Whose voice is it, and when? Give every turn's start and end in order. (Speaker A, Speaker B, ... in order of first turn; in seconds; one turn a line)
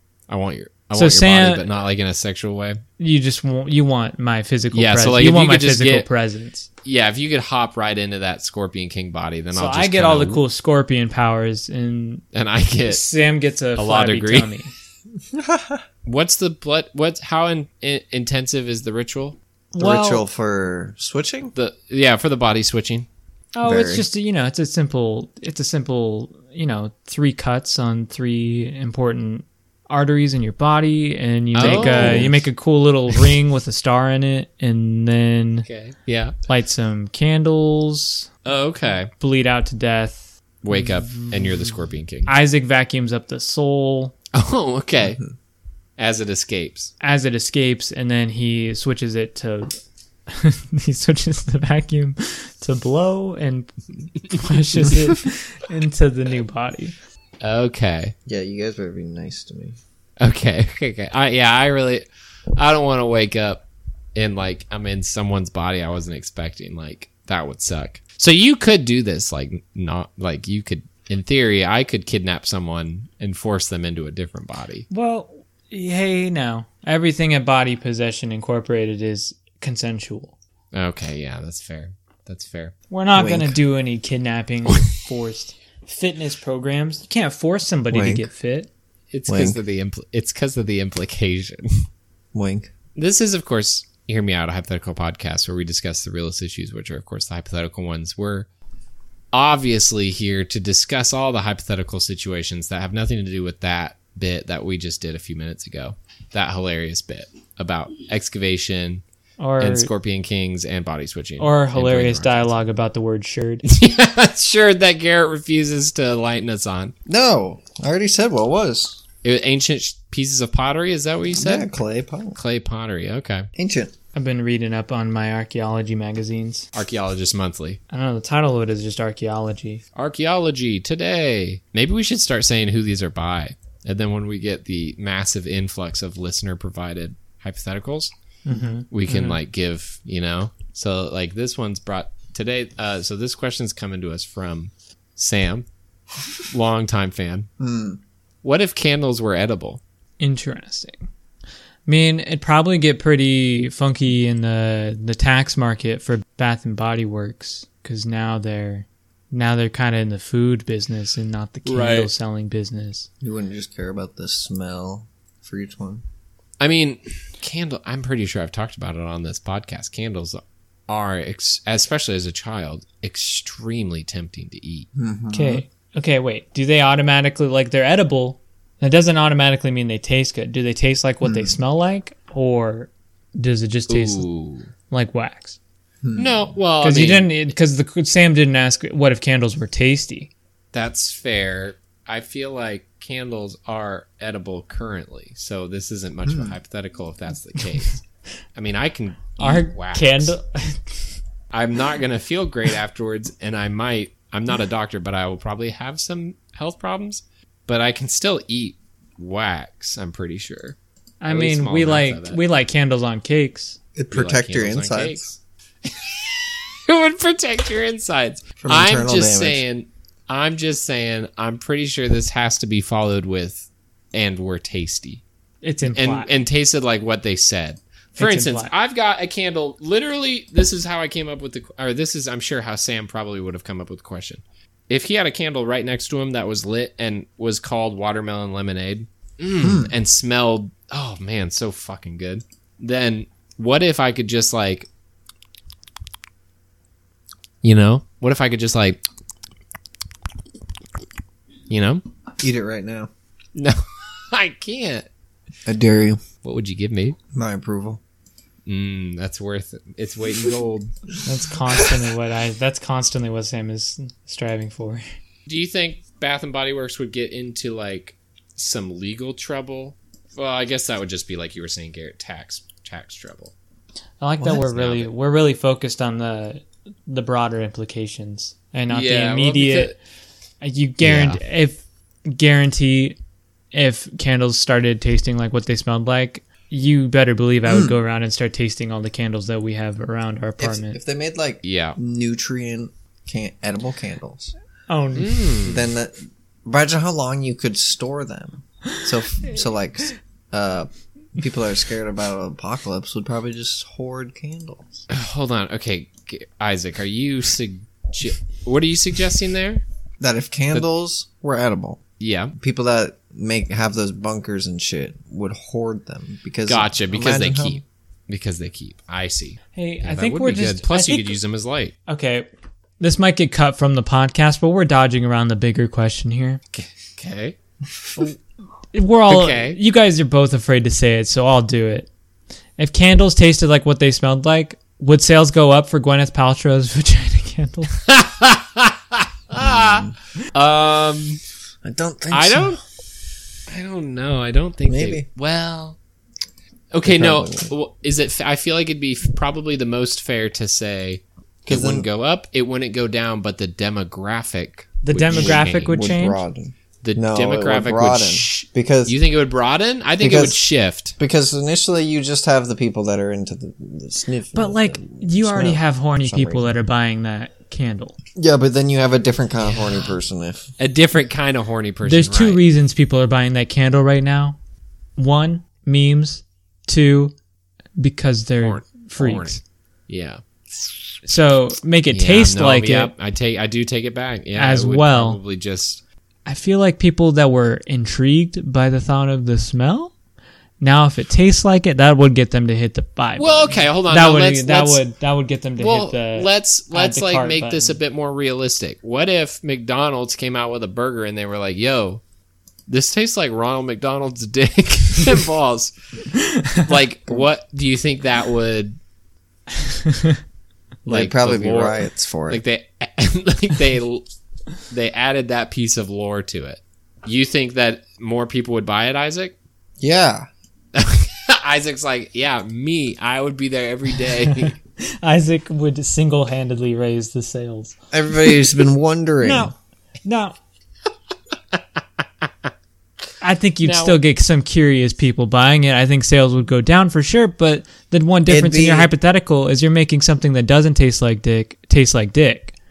Speaker A: 0.3-2.8
Speaker B: 0.9-1.6
Speaker B: 3.0-6.7
Speaker A: 4.7-6.1
Speaker A: 6.8-10.4
Speaker B: 9.5-12.2
Speaker A: 12.3-13.1
Speaker B: 12.9-14.7
Speaker A: 13.8-14.5
Speaker C: 15.3-15.8
Speaker A: 16.1-19.4
Speaker B: 19.8-20.2
Speaker C: 19.8-21.5
Speaker A: 21.6-23.1
Speaker B: 23.5-35.7
Speaker C: 23.6-24.1
Speaker A: 31.6-32.3
Speaker C: 31.6-32.4
Speaker A: 35.7-36.4
Speaker B: 36.5-38.3
Speaker A: 38.5-39.1
Speaker B: 39.2-41.7
Speaker A: 40.6-42.3
Speaker B: 42.3-44.1
Speaker A: 44.3-45.2
Speaker A: 46.0-46.9
Speaker B: 47.0-49.7
Speaker B: 50.3-53.7
Speaker B: 54.2-56.9
Speaker A: 57.4-58.1
Speaker C: 58.3-59.8
Speaker A: 60.2-63.6
Speaker A: 64.2-74.9
Speaker B: 74.9-80.4
Speaker A: 80.7-82.7
Speaker B: 82.9-88.7
Speaker C: 83.2-83.6
Speaker C: 87.9-88.3
Speaker A: 89.1-91.8
Speaker C: 89.3-89.6
Speaker C: 92.3-92.7
Speaker A: 93.0-98.5
Speaker A: 99.3-109.0
Speaker B: 109.4-109.9
Speaker A: 109.6-112.6
Speaker B: 111.4-113.7
Speaker A: 113.6-116.9
Speaker C: 117.1-119.0
Speaker A: 119.2-121.7
Speaker C: 121.3-122.4
Speaker A: 122.3-123.5
Speaker C: 123.6-123.9
Speaker B: 124.2-126.7
Speaker A: 126.7-127.8
Speaker B: 127.9-129.8
Speaker A: 129.9-138.1
Speaker B: 138.5-139.4
Speaker A: 138.9-145.7
Speaker A: 146.4-147.5
Speaker C: 147.6-148.0
Speaker A: 148.4-149.8
Speaker B: 150.2-151.1
Speaker B: 151.9-163.1
Speaker A: 161.7-162.1
Speaker C: 163.2-166.0
Speaker A: 166.6-174.9
Speaker C: 174.9-175.6
Speaker B: 175.3-184.2
Speaker C: 181.2-181.6
Speaker A: 183.9-184.7
Speaker B: 184.9-185.6
Speaker C: 186.0-186.4
Speaker A: 186.2-187.3
Speaker B: 186.8-190.3
Speaker A: 190.7-198.0
Speaker C: 196.3-196.6
Speaker A: 198.6-200.3
Speaker B: 199.4-200.9
Speaker A: 201.5-210.8
Speaker B: 211.2-213.8
Speaker A: 211.3-212.4
Speaker C: 214.0-215.2
Speaker A: 214.1-225.2
Speaker C: 218.6-219.6
Speaker B: 225.6-226.3
Speaker A: 225.9-244.9
Speaker B: 228.2-228.7
Speaker C: 239.6-239.9
Speaker A: 247.6-249.0
Speaker A: 251.7-252.0
Speaker C: 252.4-253.1
Speaker A: 253.6-255.1
Speaker C: 255.7-256.2
Speaker A: 256.4-257.2
Speaker C: 257.3-258.0
Speaker A: 258.7-260.9
Speaker B: 261.3-265.0
Speaker A: 265.5-273.5
Speaker B: 274.2-279.9
Speaker A: 274.4-275.1
Speaker A: 278.9-280.0
Speaker B: 280.6-283.2
Speaker A: 281.0-281.4
Speaker B: 283.7-291.0
Speaker C: 287.7-288.0
Speaker C: 290.6-294.5
Speaker A: 291.6-292.0
Speaker B: 294.9-295.5
Speaker A: 295.2-295.9
Speaker C: 295.7-305.0
Speaker A: 305.1-309.8
Speaker C: 310.2-312.0
Speaker A: 312.2-312.5
Speaker C: 312.6-317.8
Speaker A: 316.7-321.9
Speaker B: 319.8-321.4
Speaker B: 322.1-322.5
Speaker B: 323.0-326.6
Speaker A: 326.7-327.6
Speaker B: 328.9-332.1
Speaker A: 329.3-329.8
Speaker B: 332.8-337.9
Speaker A: 338.1-341.4
Speaker C: 339.6-340.1
Speaker C: 341.8-342.8
Speaker A: 342.3-342.8
Speaker A: 343.7-346.0
Speaker C: 344.9-345.3
Speaker A: 346.9-356.0
Speaker C: 347.1-347.7
Speaker C: 351.7-352.1
Speaker B: 355.0-356.4
Speaker C: 355.3-359.2
Speaker A: 357.0-361.2
Speaker C: 360.2-360.6
Speaker C: 361.2-366.7
Speaker B: 364.5-368.2
Speaker C: 368.4-370.7
Speaker A: 370.8-372.6
Speaker B: 372.0-374.6
Speaker B: 375.2-377.3
Speaker B: 378.0-379.6
Speaker A: 378.6-380.9
Speaker B: 381.2-383.1
Speaker A: 382.1-386.0
Speaker B: 384.6-385.4
Speaker B: 386.5-390.1
Speaker B: 390.8-398.0
Speaker A: 393.4-395.0
Speaker A: 395.8-402.2
Speaker A: 402.9-405.9
Speaker B: 406.3-406.9
Speaker A: 406.8-409.0
Speaker B: 409.8-410.4
Speaker A: 411.1-414.2
Speaker C: 411.1-412.6
Speaker A: 414.9-419.6
Speaker C: 420.0-420.5
Speaker A: 420.9-424.8
Speaker B: 424.4-427.9
Speaker C: 428.1-429.7
Speaker B: 429.4-429.7
Speaker B: 430.2-430.6
Speaker B: 433.4-442.7
Speaker A: 433.8-434.2
Speaker C: 438.5-439.1